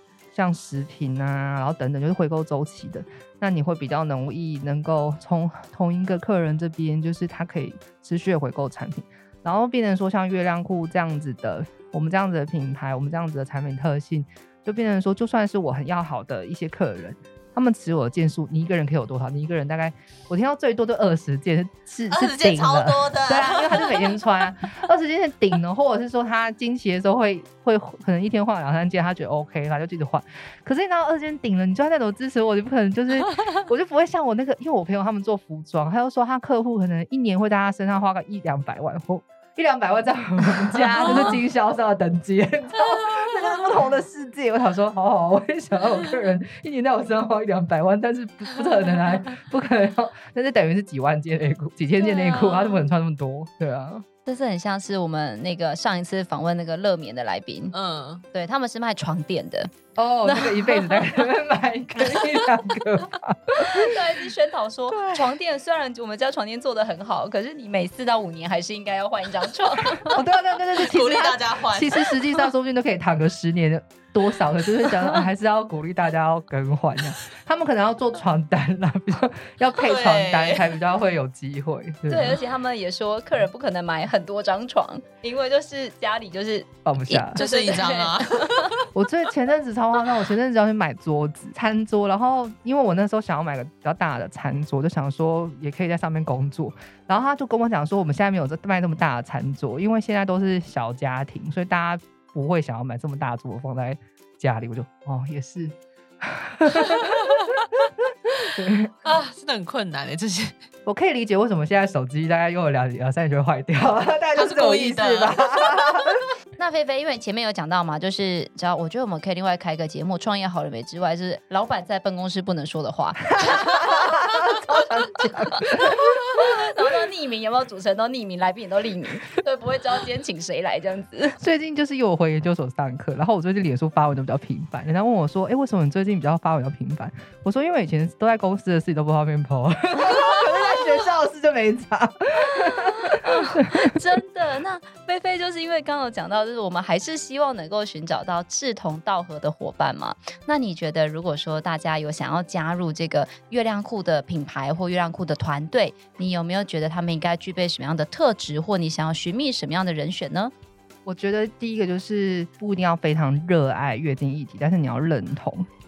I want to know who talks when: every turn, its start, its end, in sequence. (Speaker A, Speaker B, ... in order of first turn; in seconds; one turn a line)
Speaker A: 0.3-54.0
Speaker B: 22.1-24.2
Speaker B: 41.1-41.4
Speaker B: 52.0-52.9
Speaker C: 54.2-57.7
Speaker B: 57.7-58.2
Speaker C: 58.3-61.1
Speaker A: 60.0-63.9
Speaker C: 63.6-70.2
Speaker B: 64.9-65.2
Speaker A: 70.1-82.4
Speaker B: 70.7-72.5
Speaker B: 79.8-80.8
Speaker C: 82.1-88.7
Speaker A: 86.8-87.4
Speaker B: 87.4-88.8
Speaker A: 88.9-107.4
Speaker B: 106.8-107.5
Speaker A: 108.4-109.1
Speaker B: 109.0-110.5
Speaker A: 110.9-116.2
Speaker B: 114.3-116.2
Speaker C: 116.6-124.2
Speaker A: 123.4-126.1
Speaker C: 125.7-131.4
Speaker A: 131.4-143.9
Speaker C: 142.7-160.5
Speaker A: 161.1-165.7